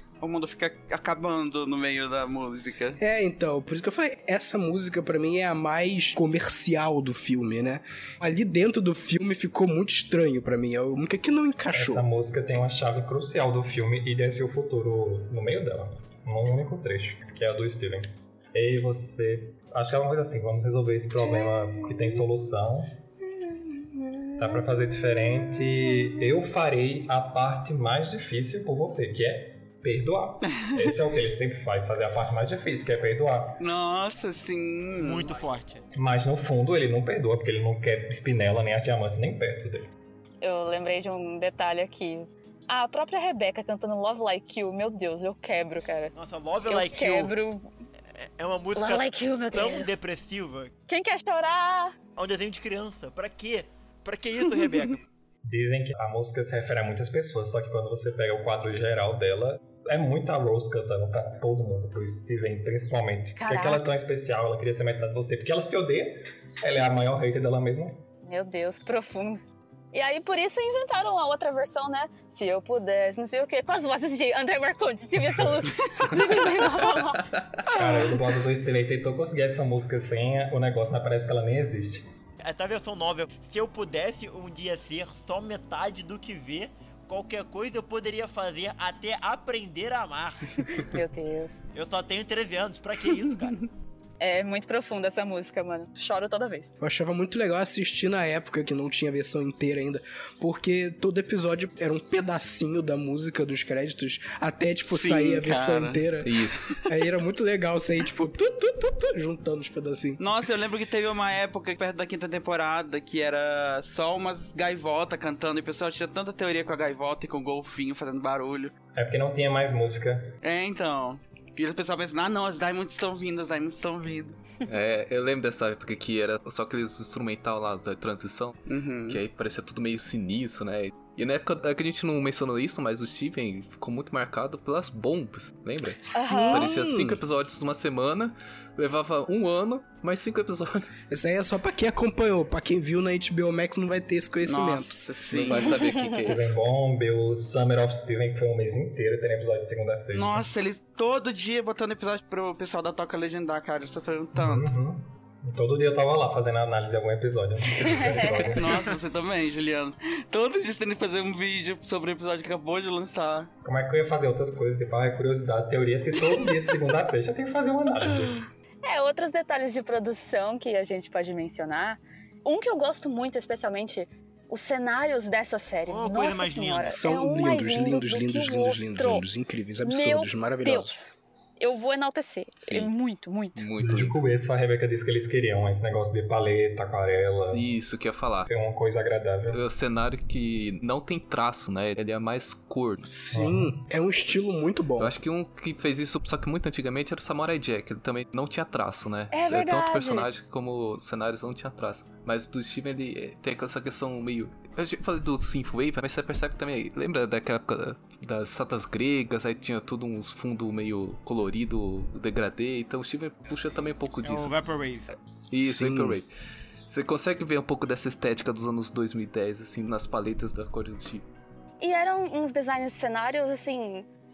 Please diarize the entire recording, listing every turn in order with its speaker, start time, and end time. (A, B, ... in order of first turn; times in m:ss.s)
0:00.2-0:03.0 A
0:03.0-0:12.0 B
0:11.7-0:23.0 C
0:24.4-0:33.6 C
0:33.6-0:35.3 A
0:35.0-0:35.8 D
0:35.9-0:39.9 C
0:40.4-0:46.1 E
0:46.2-0:47.4 D
0:46.7-0:47.7 E
0:48.2-0:50.7 D
0:48.8-0:50.0 E
0:50.9-0:52.0 E
0:52.2-0:55.1 D
0:55.4-1:08.0 C
1:03.4-1:03.8 E
1:08.2-1:09.4 E
1:09.9-1:17.3 E
1:17.7-1:22.1 C
1:22.4-1:30.9 D
1:30.7-1:31.6 E
1:31.7-1:33.6 D
1:34.2-1:36.7 E
1:36.8-1:46.3 B
1:44.9-1:46.1 A
1:46.2-1:46.8 F
1:46.9-1:50.2 B
1:50.2-1:58.7 A
1:59.0-2:00.3 C
2:00.4-2:04.5 A
2:04.6-2:20.9 F
2:08.7-2:09.2 A
2:16.0-2:17.2 B
2:16.2-2:16.7 E
2:21.1-2:25.0 B
2:24.4-2:26.0 A
2:25.3-2:26.5 F
2:25.7-2:26.2 E
2:26.2-2:30.5 C
2:30.1-2:34.7 A
2:34.4-2:38.9 C
2:37.8-2:38.5 E
2:38.5-2:43.5 A
2:43.6-2:48.4 C
2:48.8-2:59.2 E
2:55.9-2:57.0 D
2:56.9-3:00.9 B
2:59.8-3:03.6 E
3:03.6-3:04.2 F
3:03.8-3:07.7 C
3:07.5-3:08.5 F
3:08.4-3:09.6 C
3:09.5-3:13.0 F
3:13.0-3:15.1 B
3:13.3-3:13.8 C
3:15.0-3:34.5 F
3:19.3-3:20.3 E
3:34.2-3:35.1 D
3:35.5-3:36.3 F
3:35.6-3:36.2 B
3:36.9-3:41.2 F
3:41.8-3:44.1 E